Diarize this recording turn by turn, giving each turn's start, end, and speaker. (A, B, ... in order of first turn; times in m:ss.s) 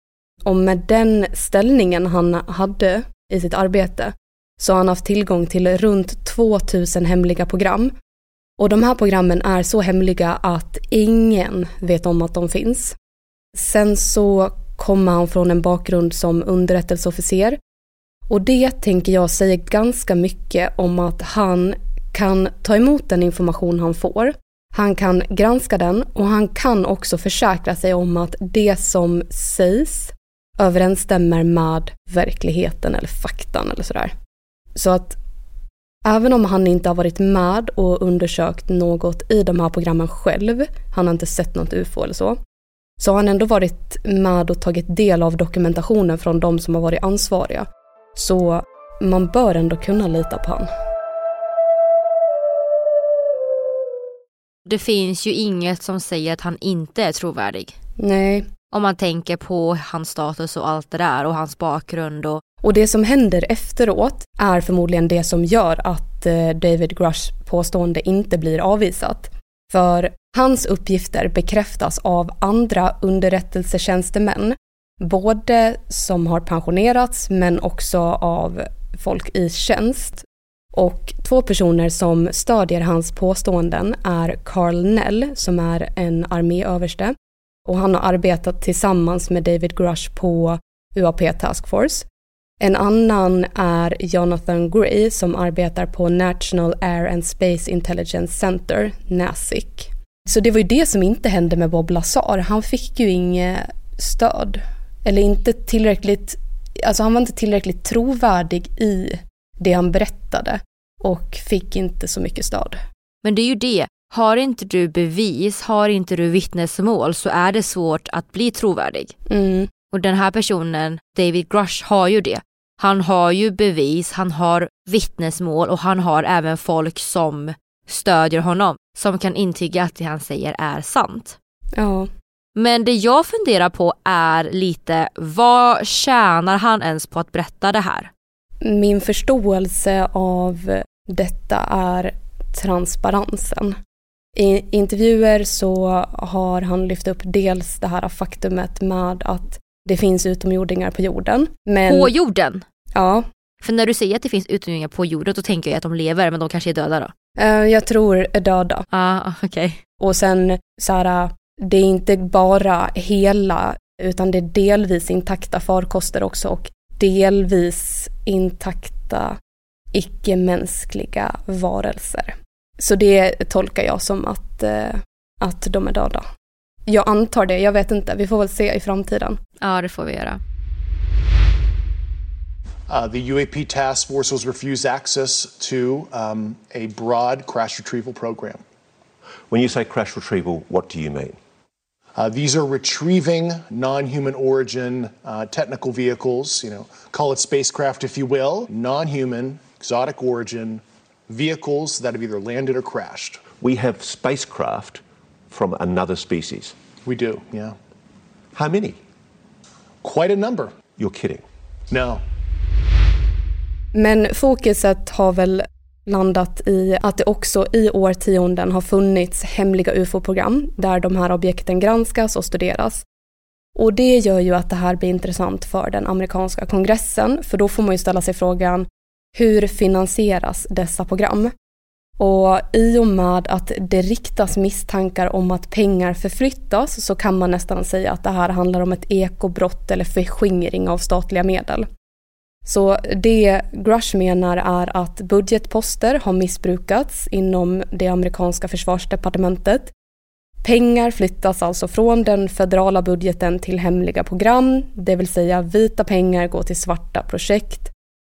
0:00.4-0:07.9 A
0:08.6-0:13.0 A
0:13.5-0:17.6 A
0:18.3-0:34.1 A
0:34.8-0:35.2 A
0:36.0-0:42.4 A
0:43.0-0:50.7 A
0:54.7-0:57.8 B
0:58.0-0:58.5 A
0:58.7-1:02.4 B
1:02.6-1:32.0 A
1:32.6-1:52.8 A
1:53.2-1:59.1 B
1:59.3-1:59.7 A
1:59.9-2:11.4 B
2:11.8-2:12.1 A
2:12.6-2:18.1 B
2:18.6-2:23.8 A
2:24.4-2:32.1 A
2:31.9-2:32.6 B
2:32.9-2:33.3 A
2:33.6-2:37.1 B
2:37.4-2:38.9 A
2:38.9-2:39.8 B
2:40.0-2:49.4 A
2:49.9-2:56.3 A
2:56.9-2:59.4 A
2:59.6-3:00.4 B
3:02.9-3:08.6 C
3:09.5-3:11.4 D
3:12.2-3:23.5 C
3:23.5-3:26.8 D
3:27.0-3:27.8 C
3:28.5-3:29.0 D
3:30.0-3:30.7 C
3:31.0-3:31.4 D
3:31.9-3:32.2 C
3:33.9-3:43.0 A
3:43.8-3:51.5 A
3:52.2-4:01.9 A
4:02.6-4:09.9 A
4:10.6-4:17.9 A